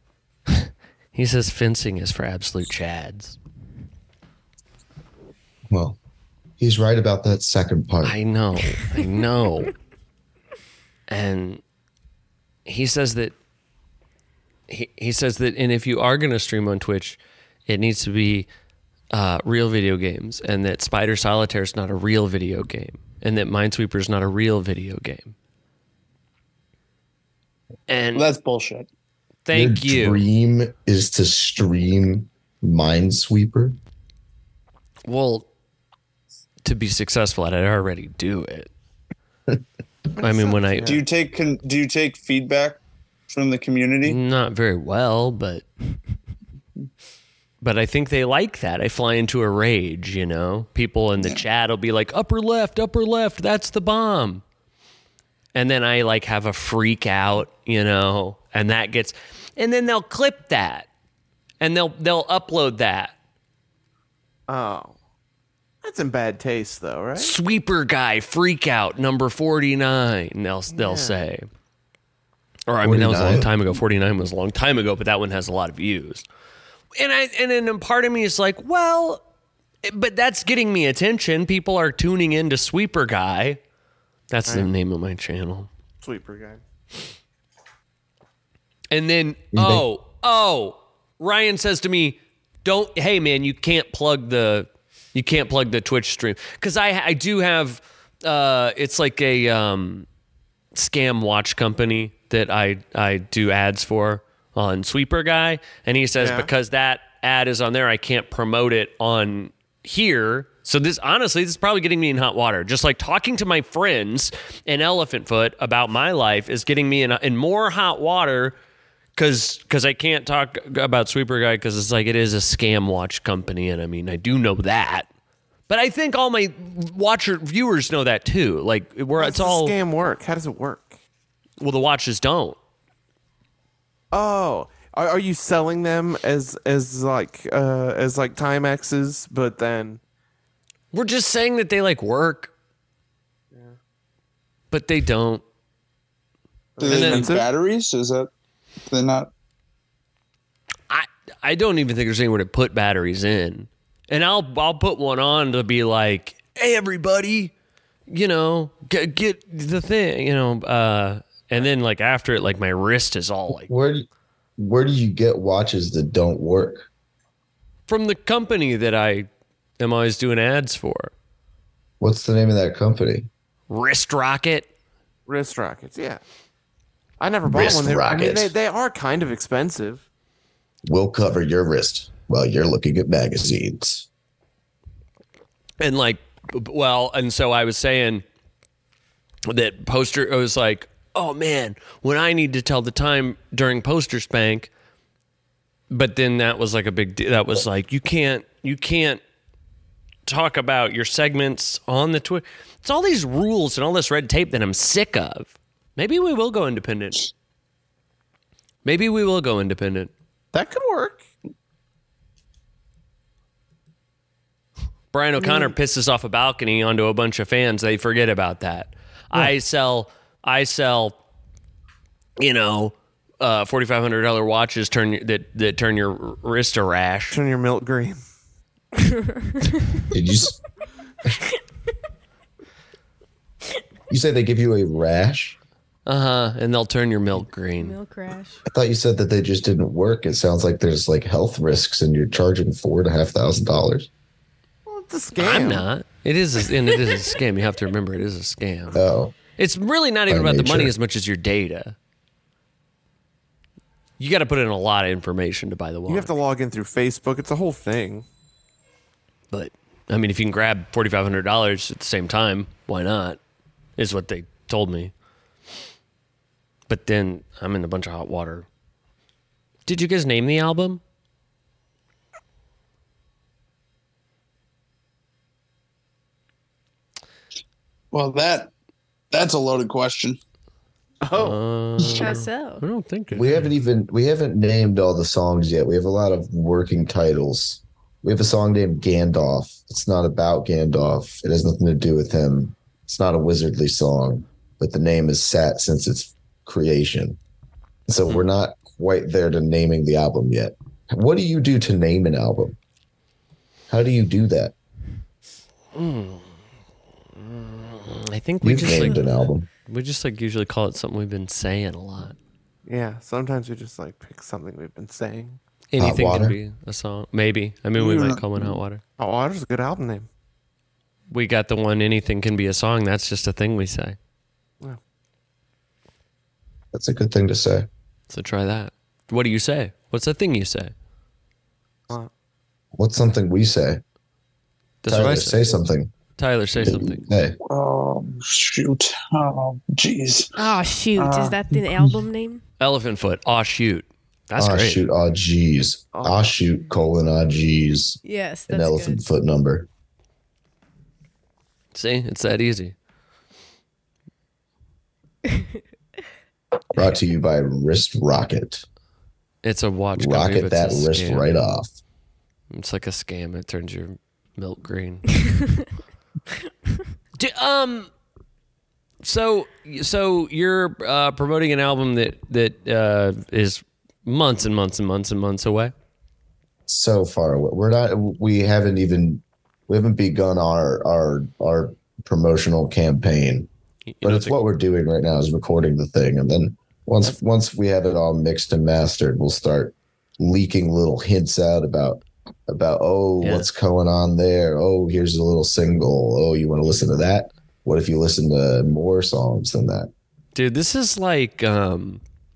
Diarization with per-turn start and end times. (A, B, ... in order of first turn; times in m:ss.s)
0:00.5-0:03.4 A
0:05.7-0:06.0 B
0:06.6-0:08.2 B
0:08.0-0:09.7 A
0:11.1-0:11.6 A
0:12.7-0:13.4 A
0:14.7-0:18.5 A
0:19.1-0:25.4 A
0:27.9-0:28.3 A
0:28.2-0:28.9 C
0:29.4-0:30.3 A
0:29.5-0:33.8 B
0:35.0-0:35.5 A
0:36.6-0:38.7 A
0:40.2-0:41.0 D
0:40.2-0:41.0 A
0:40.9-0:44.2 C
0:44.0-0:45.7 A
0:47.6-0:54.4 A
0:55.5-1:00.9 A
1:01.6-1:03.2 A
1:04.5-1:05.0 D
1:05.8-1:07.4 D
1:07.2-1:11.5 A
1:10.7-1:11.2 D
1:12.7-1:16.2 A
1:12.8-1:13.8 B
1:17.0-1:19.2 A
1:19.8-1:23.6 A
1:24.3-1:25.7 A
1:26.0-1:26.6 D
1:28.9-1:40.1 A
1:29.5-1:29.9 B
1:40.7-1:58.6 A
1:46.2-1:46.5 D
1:59.2-2:05.1 A
2:05.7-2:09.8 A
2:09.2-2:11.0 D
2:11.6-2:12.6 A
2:14.1-2:20.0 D
2:20.9-2:22.5 A
2:24.7-2:25.4 A
2:26.8-2:27.5 D
2:26.8-2:28.3 C
2:26.8-2:27.4 A
2:28.9-2:29.3 C
2:30.9-2:37.5 A
2:38.1-2:43.7 A
2:43.7-2:46.9 B
2:47.9-2:49.3 A
2:49.8-2:51.1 A
2:52.0-2:53.3 B
2:53.7-2:54.7 A
2:55.3-2:56.2 D
2:57.2-3:00.0 D
2:57.5-2:58.5 B
3:00.8-3:04.1 B
3:05.8-3:08.2 A
3:09.5-3:14.7 A
3:15.9-3:19.2 A
3:20.3-3:27.3 A
3:28.8-3:30.1 A
3:30.5-3:31.2 D
3:35.1-3:41.2 A
3:42.4-3:47.4 A
3:47.3-3:48.2 D
3:49.0-3:50.1 E
3:50.1-3:50.6 B
3:54.1-3:55.6 B
3:56.1-3:58.0 A
3:57.8-3:58.6 E
3:58.7-4:04.1 B
4:04.9-4:05.9 D
4:05.4-4:09.0 A
4:08.9-4:09.4 B
4:09.6-4:12.0 A
4:10.3-4:10.9 B
4:14.2-4:16.3 A
4:16.1-4:18.3 D
4:19.5-4:23.4 A
4:24.0-4:25.1 A
4:26.9-4:28.7 A
4:29.9-4:31.0 A
4:38.1-4:38.7 C
4:39.3-4:40.4 C
4:41.2-4:41.6 D
4:41.3-4:43.7 A
4:42.0-4:42.8 E
4:43.3-4:57.4 B
4:58.1-5:02.8 B
5:03.9-5:04.7 B
5:05.9-5:06.6 A
5:07.3-5:09.3 A
5:08.6-5:09.7 B
5:09.9-5:12.4 A
5:12.9-5:15.6 D
5:15.9-5:19.0 A
5:16.0-5:16.6 B
5:18.0-5:18.8 C
5:19.2-5:20.3 D
5:21.3-5:24.2 A
5:26.9-5:27.9 B
5:28.3-5:30.9 A
5:33.0-5:34.0 B
5:35.0-5:35.7 A
5:35.1-5:36.1 B
5:36.4-5:37.2 A
5:36.8-5:37.6 B
5:37.7-5:40.5 C
5:40.5-5:42.6 E
5:41.2-5:42.1 C
5:42.8-5:45.0 A
5:44.6-5:49.9 B
5:46.1-5:46.6 D
5:48.2-5:49.2 E
5:51.9-5:53.0 A
5:56.9-5:58.8 B
5:59.6-6:01.5 A
6:00.2-6:01.9 B
6:02.7-6:05.4 A
6:07.4-6:08.1 A
6:09.2-6:15.9 A
6:16.9-6:23.7 B
6:24.1-6:24.6 A
6:24.2-6:40.1 B
6:33.4-6:33.7 A
6:40.6-6:42.2 A